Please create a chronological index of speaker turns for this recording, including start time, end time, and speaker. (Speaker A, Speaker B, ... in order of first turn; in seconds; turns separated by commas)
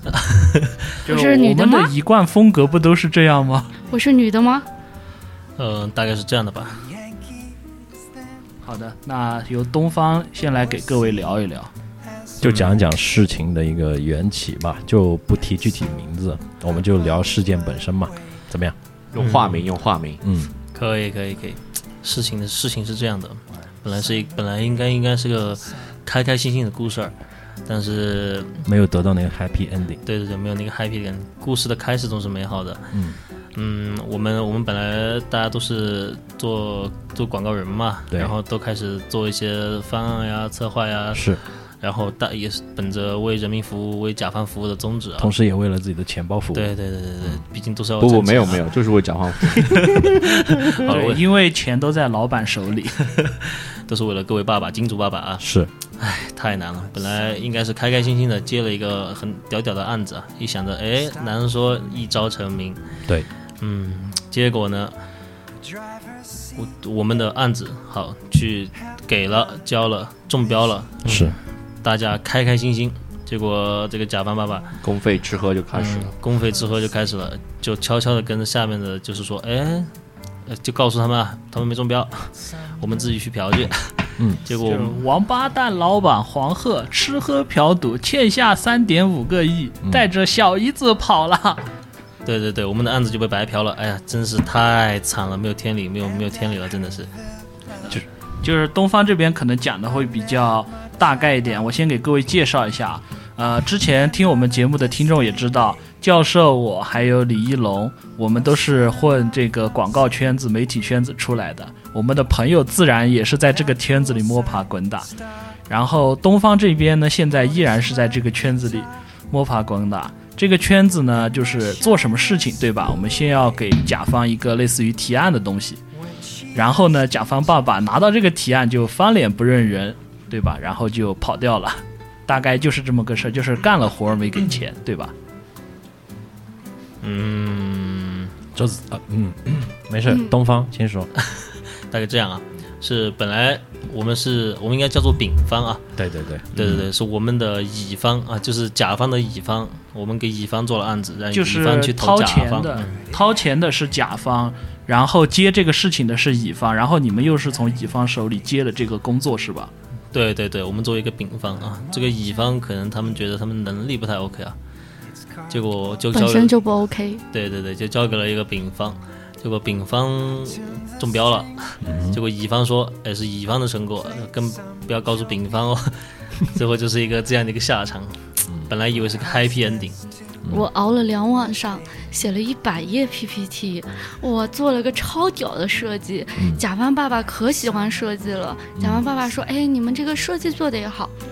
Speaker A: 0.1-0.8, Speaker B: 1.0-3.8, Speaker C: 1.1-1.9, Speaker C: 3.9-4.7, Speaker A: 5.6-6.9, Speaker B: 8.6-11.7, Speaker D: 12.4-18.8, Speaker A: 12.4-12.7, Speaker E: 19.1-20.2, Speaker A: 19.2-19.6, Speaker D: 20.2-20.5, Speaker A: 20.7-27.1, Speaker A: 27.7-28.6, Speaker D: 28.6-30.0, Speaker A: 30.1-32.9, Speaker D: 32.9-33.2, Speaker A: 33.5-41.3, Speaker D: 41.1-41.4, Speaker A: 41.8-45.3, Speaker D: 45.2-46.7, Speaker A: 46.5-48.6, Speaker E: 48.0-49.9, Speaker A: 49.6-51.2, Speaker B: 50.8-53.0, Speaker A: 53.0-55.4, Speaker D: 55.4-55.7, Speaker A: 56.0-62.8, Speaker A: 63.6-65.0, Speaker A: 66.5-74.7, Speaker D: 71.0-71.4, Speaker E: 74.8-76.1, Speaker A: 75.7-79.9, Speaker A: 80.5-85.0, Speaker B: 84.6-91.6, Speaker A: 92.2-97.1, Speaker B: 98.4-115.1, Speaker B: 115.7-125.8, Speaker B: 126.5-135.1, Speaker A: 137.0-138.3, Speaker D: 138.5-141.1, Speaker A: 141.2-145.8, Speaker D: 146.0-146.9, Speaker A: 146.5-153.0, Speaker B: 151.3-159.7, Speaker A: 160.1-164.6, Speaker A: 165.5-166.5, Speaker C: 166.1-167.2, Speaker A: 167.3-180.0, Speaker D: 171.8-172.2, Speaker C: 180.5-191.1, Speaker D: 188.8-189.0